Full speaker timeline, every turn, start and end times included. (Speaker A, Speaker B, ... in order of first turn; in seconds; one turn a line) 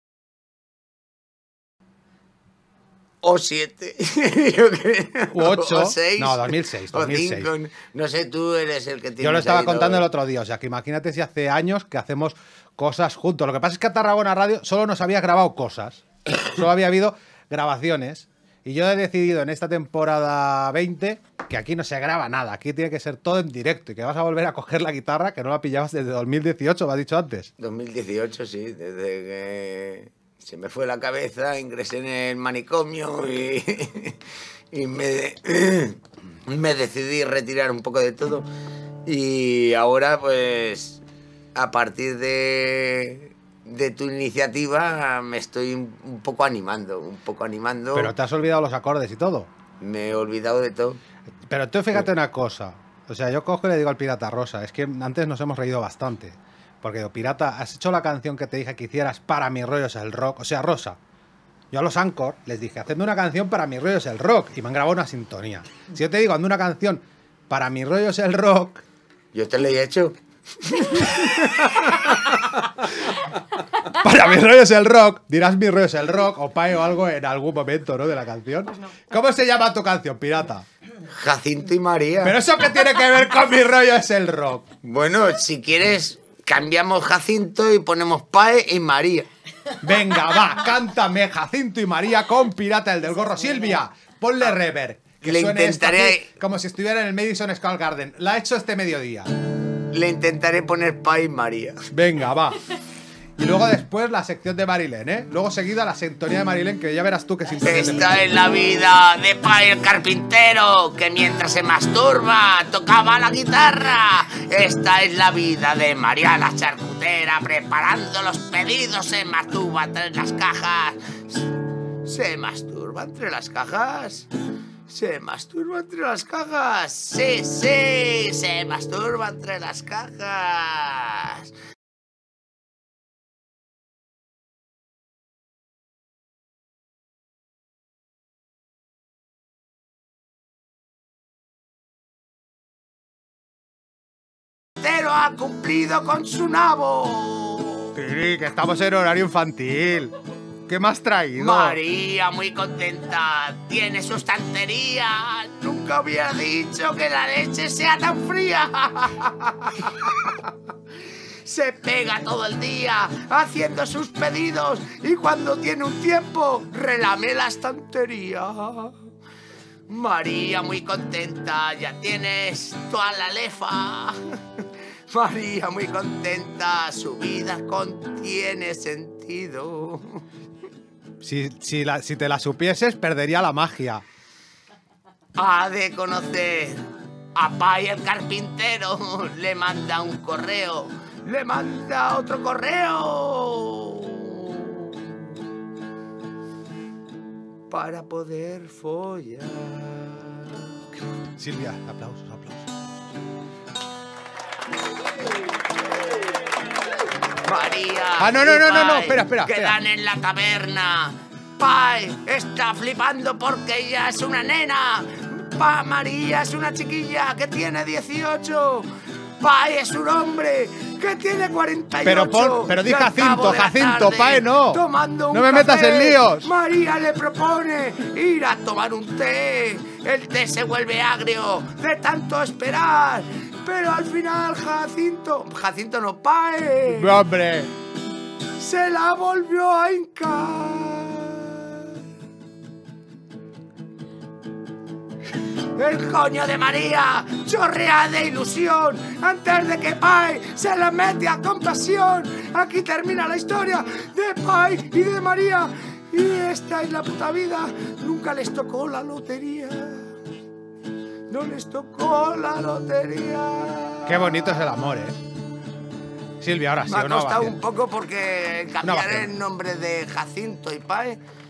Speaker A: 3.2-10.1
Speaker B: 5.3-7.5
Speaker B: 9.2-27.5
Speaker A: 27.6-34.2
Speaker A: 34.7-38.5
Speaker A: 39.1-41.0
Speaker A: 41.5-48.1
Speaker B: 48.0-49.5
Speaker A: 49.8-51.0
Speaker B: 51.5-61.0
Speaker B: 61.7-68.8
Speaker A: 69.3-72.3
Speaker B: 73.8-80.6
Speaker A: 81.1-82.4
Speaker B: 82.2-84.7
Speaker A: 84.8-89.3
Speaker B: 89.8-99.3
Speaker A: 95.2-96.3
Speaker A: 99.9-101.8
Speaker B: 101.9-102.6
Speaker B: 103.4-108.3
Speaker A: 107.6-121.5
Speaker A: 122.0-124.3
Speaker A: 124.9-131.5
Speaker A: 144.8-147.9
Speaker B: 147.9-150.1
Speaker B: 150.7-151.8
Speaker A: 151.3-160.5
Speaker A: 161.4-169.0
Speaker A: 169.9-180.2
Speaker B: 181.2-184.0
Speaker A: 185.4-195.3
Speaker A: 197.7-200.7
Speaker B: 201.4-202.7
Speaker A: 207.4-218.9
Speaker B: 208.2-209.8
Speaker A: 219.4-237.2
Speaker B: 222.0-226.5
Speaker B: 236.9-237.7
Speaker A: 238.6-242.0
Speaker A: 245.7-260.1
Speaker A: 261.3-264.6
Speaker B: 264.1-265.2
Speaker B: 266.4-267.6
Speaker A: 266.9-271.2
Speaker B: 268.8-269.3